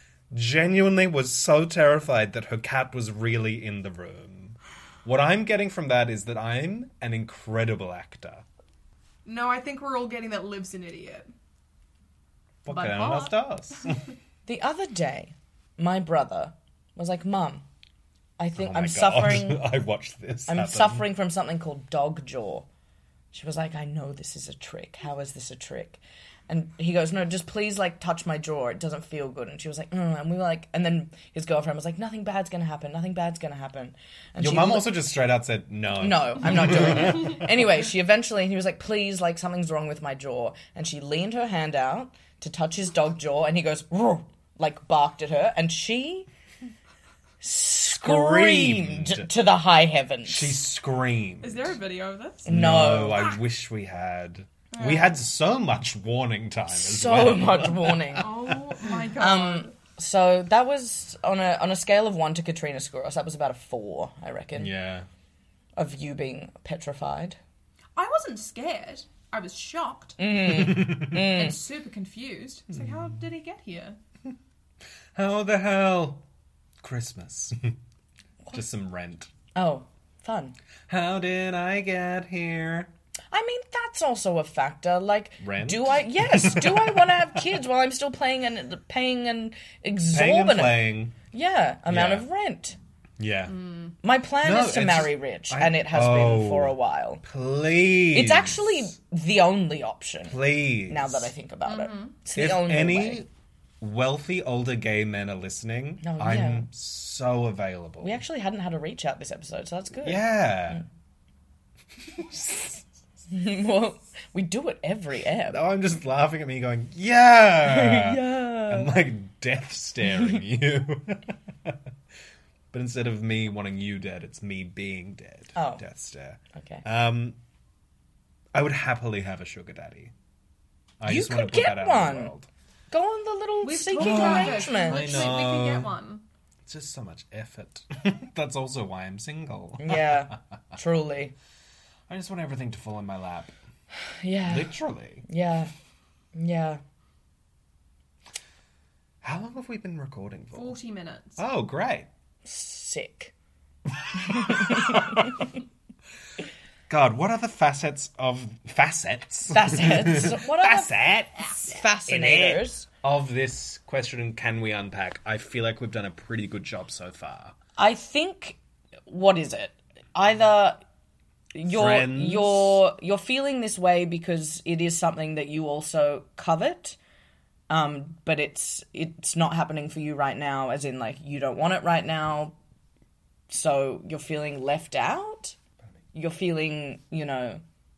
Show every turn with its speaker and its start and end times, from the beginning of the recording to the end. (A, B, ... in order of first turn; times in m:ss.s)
0:00.3-0:08.4 A
0:09.2-0:11.3 B
0:12.6-0:14.0 A
0:12.7-0:13.9 B
0:14.4-0:17.6 C
0:18.4-0:19.6 C
0:18.6-0:21.0 A
0:20.5-0:22.6 C
0:23.3-0:35.0 C
0:34.4-0:37.5 A
0:36.0-0:46.3 C
0:47.4-0:50.6 C
0:47.9-0:49.3 A
0:50.2-0:51.8 A
0:51.4-0:52.5 B
0:52.4-0:53.4 C
0:52.4-0:58.6 A
0:54.7-0:55.2 B
0:56.7-0:58.3 C
0:58.2-0:59.7 B
0:59.2-1:04.7 C
1:04.6-1:05.1 A
1:05.8-1:07.4 C
1:08.0-1:10.2 B
1:10.2-1:11.6 C
1:10.5-1:11.2 A
1:11.0-1:14.0 B
1:12.7-1:13.0 A
1:15.1-1:16.2 A
1:16.8-1:17.7 A
1:18.5-1:19.3 A
1:19.5-1:20.5 C
1:20.9-1:22.9 A
1:23.3-1:32.8 C
1:25.4-1:27.4 A
1:30.1-1:31.1 A
1:31.9-1:32.2 A
1:33.2-1:33.5 A
1:33.5-1:33.9 B
1:34.0-1:37.2 C
1:34.4-1:38.9 A
1:38.1-1:43.2 C
1:40.2-1:41.3 A
1:41.6-1:42.2 B
1:42.3-1:43.3 A
1:43.8-1:48.2 A
1:46.0-1:46.7 C
1:48.0-1:50.8 C
1:50.0-1:50.8 A
1:52.2-1:52.8 A
1:53.3-1:55.6 C
1:55.5-2:01.8 A
1:57.6-1:58.9 C
2:02.7-2:07.4 A
2:05.6-2:05.8 C
2:06.5-2:06.8 C
2:08.5-2:10.1 A
2:11.0-2:12.5 A
2:11.0-2:12.3 C
2:12.9-2:15.3 C
2:13.6-2:16.2 B
2:14.0-2:15.9 A
2:16.6-2:20.4 A
2:19.8-2:21.3 C
2:22.1-2:23.5 A
2:24.2-2:24.7 C
2:24.4-2:25.2 A
2:25.2-2:25.7 C
2:26.3-2:26.8 C
2:29.2-2:30.8 A
2:30.5-2:31.4 B
2:31.4-2:32.1 A
2:32.4-2:33.3 C
2:34.1-2:35.3 A
2:34.2-2:35.4 C
2:36.9-2:47.5 A
2:39.5-2:40.9 C
2:41.6-2:42.8 C
2:47.8-2:50.8 C
2:51.5-2:57.0 C
2:51.6-2:52.8 A
2:57.7-3:02.5 C
3:03.5-3:05.6 C
3:06.1-3:07.6 C